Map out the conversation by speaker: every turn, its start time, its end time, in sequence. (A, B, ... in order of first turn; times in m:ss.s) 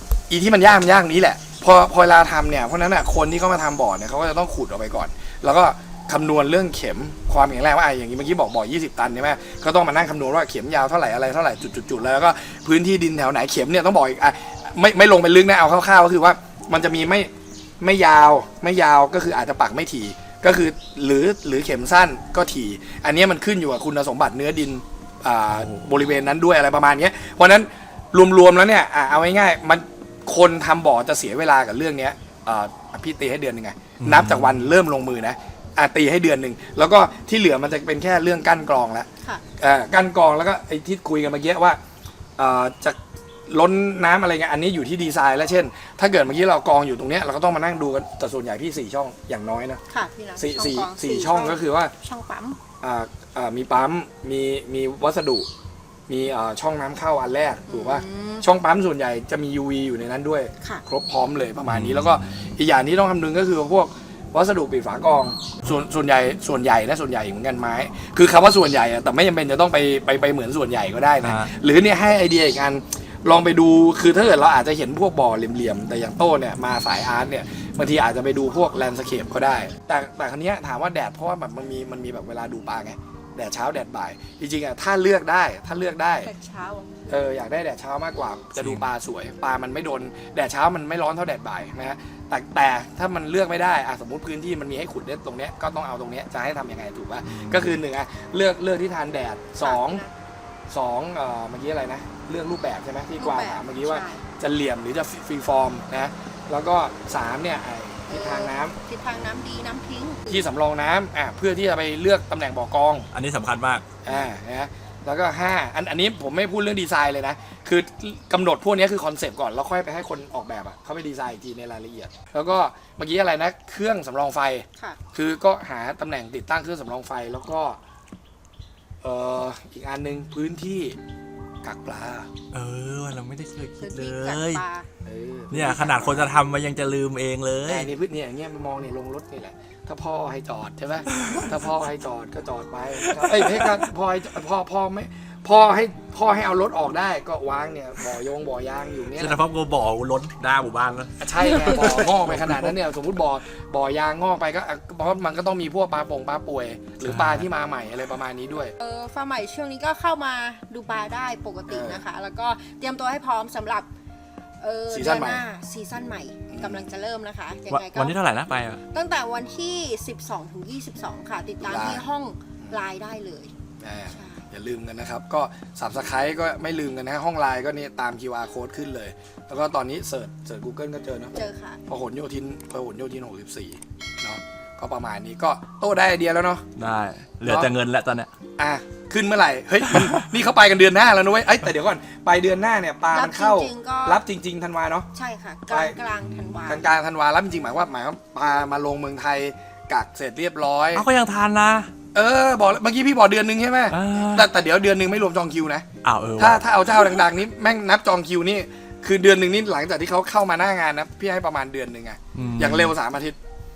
0:00.3-0:41.8 A
0:25.5-0:25.8 B
0:34.0-0:34.6 B
0:42.4-0:49.8 A
0:49.9-0:52.6 C
0:50.4-0:51.9 A
0:52.8-0:55.5 A
0:56.1-1:26.3 A
0:57.7-0:58.5 C
1:01.7-1:02.0 B
1:11.2-1:11.5 B
1:26.2-1:27.4 C
1:27.1-1:40.0 A
1:28.6-1:28.8 B
1:37.2-1:37.8 B
1:39.6-1:40.1 C
1:40.7-1:48.8 A
1:43.2-1:44.2 C
1:48.1-1:50.5 C
1:50.3-1:53.1 A
1:53.1-1:53.8 B
1:54.0-2:07.8 A
1:54.1-1:54.3 C
2:09.0-2:11.0 A
2:11.6-2:12.3 A
2:12.5-2:14.6 B
2:13.8-2:14.9 C
2:15.0-2:16.4 A
2:15.5-2:17.9 B
2:17.6-2:29.4 A
2:21.1-2:21.5 B
2:23.2-2:23.7 B
2:29.2-2:32.8 B
2:31.2-2:38.7 A
2:31.5-2:31.9 C
2:37.0-2:37.5 B
2:38.8-2:43.9 C
2:41.7-2:42.0 A
2:44.6-2:48.2 C
2:44.9-2:45.4 A
2:46.5-2:46.8 A
2:47.7-2:48.8 B
2:48.8-2:53.5 C
2:51.6-2:52.0 A
2:53.8-3:06.6 A
2:54.1-2:54.5 C
3:01.3-3:01.8 C
3:06.8-3:08.3 B
3:07.4-3:07.7 A
3:08.6-3:15.1 A
3:13.1-3:14.2 C
3:15.1-3:16.9 C
3:15.7-3:16.0 A
3:16.3-3:16.6 B
3:16.6-3:21.0 A
3:20.9-3:21.9 B
3:22.1-3:25.8 A
3:23.9-3:24.5 B
3:26.0-3:27.0 B
3:26.4-3:33.4 A
3:32.3-3:33.0 B